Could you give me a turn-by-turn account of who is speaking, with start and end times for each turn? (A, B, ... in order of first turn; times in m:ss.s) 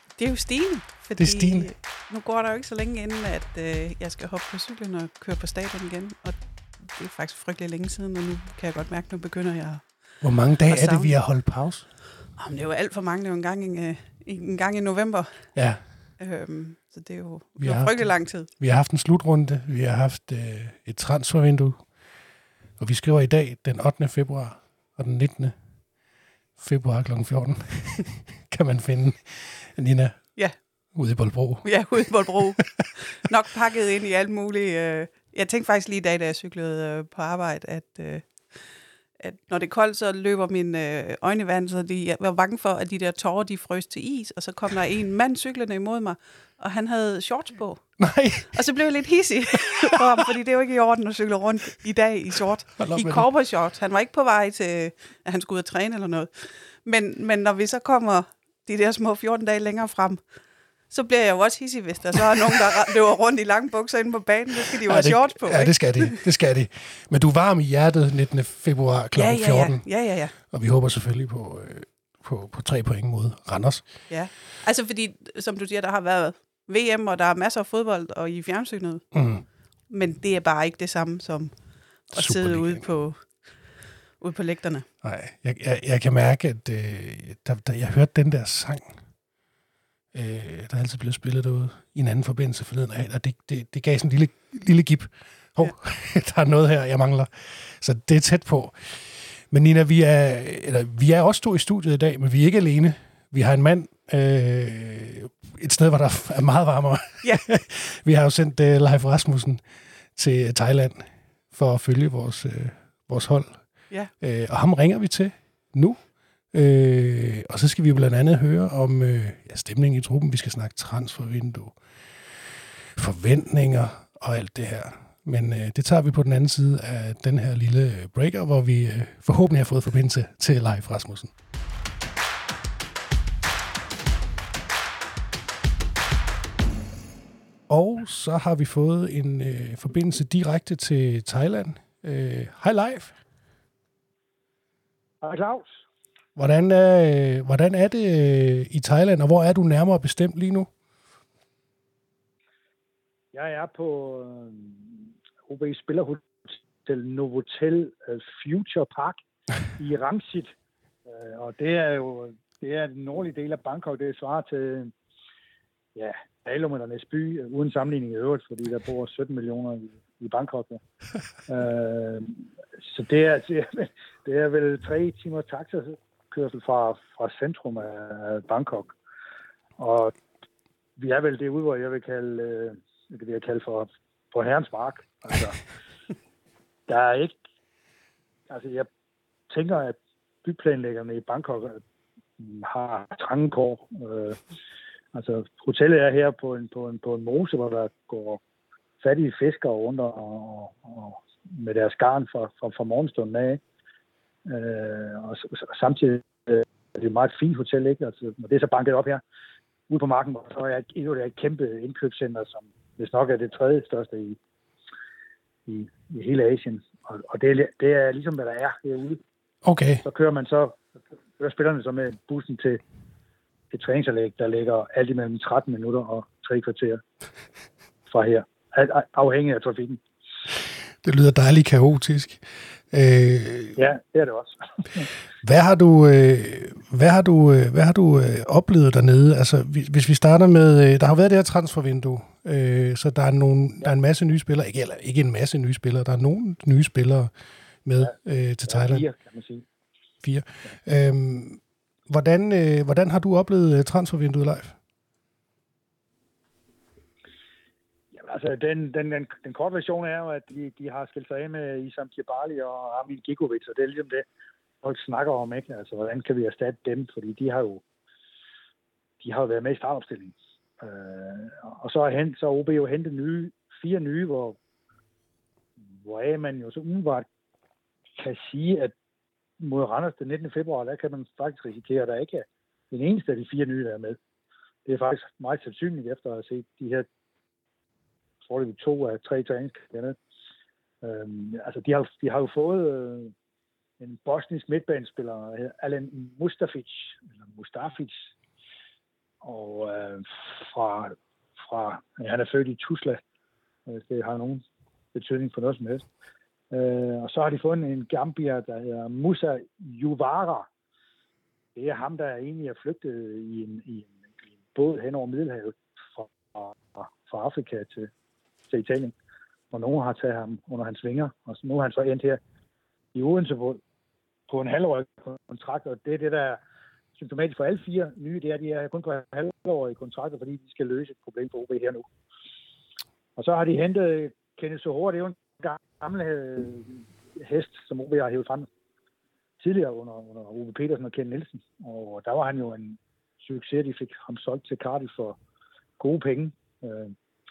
0:00.2-0:11.2 A
0:01.2-0:01.7 B
0:10.2-0:11.9 B
0:12.3-0:18.5 A
0:15.6-0:16.1 B
0:17.6-0:21.9 B
0:22.8-0:25.6 B
0:26.6-0:30.4 B
0:30.9-0:32.8 B
0:31.6-1:00.2 A
0:48.0-0:48.6 B
0:52.8-0:53.3 B
1:00.9-1:06.2 A
1:04.8-1:14.1 B
1:09.2-1:10.3 A
1:14.1-1:19.1 A
1:19.1-1:19.4 B
1:19.9-1:21.5 A
1:22.1-1:24.9 A
1:22.2-1:22.8 B
1:25.0-1:29.0 B
1:30.1-2:11.3 B
2:17.7-2:23.2 B
2:25.2-2:25.8 C
2:26.4-2:30.7 B
2:33.3-2:39.2 C
2:39.8-2:40.5 C
2:41.1-2:44.9 C
2:46.0-2:50.8 C
2:51.5-2:59.0 C
2:59.8-3:00.1 C
3:01.0-3:05.6 C
3:06.9-3:07.4 C
3:08.5-3:08.9 C
3:09.5-3:11.8 C
3:12.4-3:14.4 C
3:15.1-3:18.4 C
3:19.0-3:23.6 C
3:24.5-3:29.2 C
3:29.9-3:34.4 C
3:35.7-3:39.2 C
3:39.6-3:40.0 B
3:40.0-3:40.8 C
3:41.4-3:42.8 C
3:43.7-3:47.0 C
3:48.1-3:50.0 C
3:51.0-3:53.8 B
3:53.8-3:55.1 C
3:55.4-4:07.3 B
4:07.8-4:09.1 B
4:08.7-4:09.6 C
4:10.2-4:14.8 B
4:18.1-4:24.3 C
4:24.8-4:27.8 C
4:29.2-4:34.6 C
4:36.0-4:37.3 C
4:38.2-4:38.9 C
4:39.6-4:44.2 C
4:44.9-4:47.1 C
4:48.4-4:50.2 C
4:51.0-4:53.3 C
4:54.0-4:58.3 C
4:59.4-5:03.2 C
5:03.9-5:04.6 C
5:05.1-5:06.0 C
5:06.7-5:10.7 C
5:11.8-5:14.2 C
5:14.7-5:18.1 C
5:18.7-5:19.1 C
5:19.7-5:22.4 C
5:23.1-5:23.8 C
5:24.5-5:26.6 C
5:27.2-5:32.1 C
5:33.4-5:38.7 C
5:39.6-5:45.4 C
5:46.0-5:47.1 C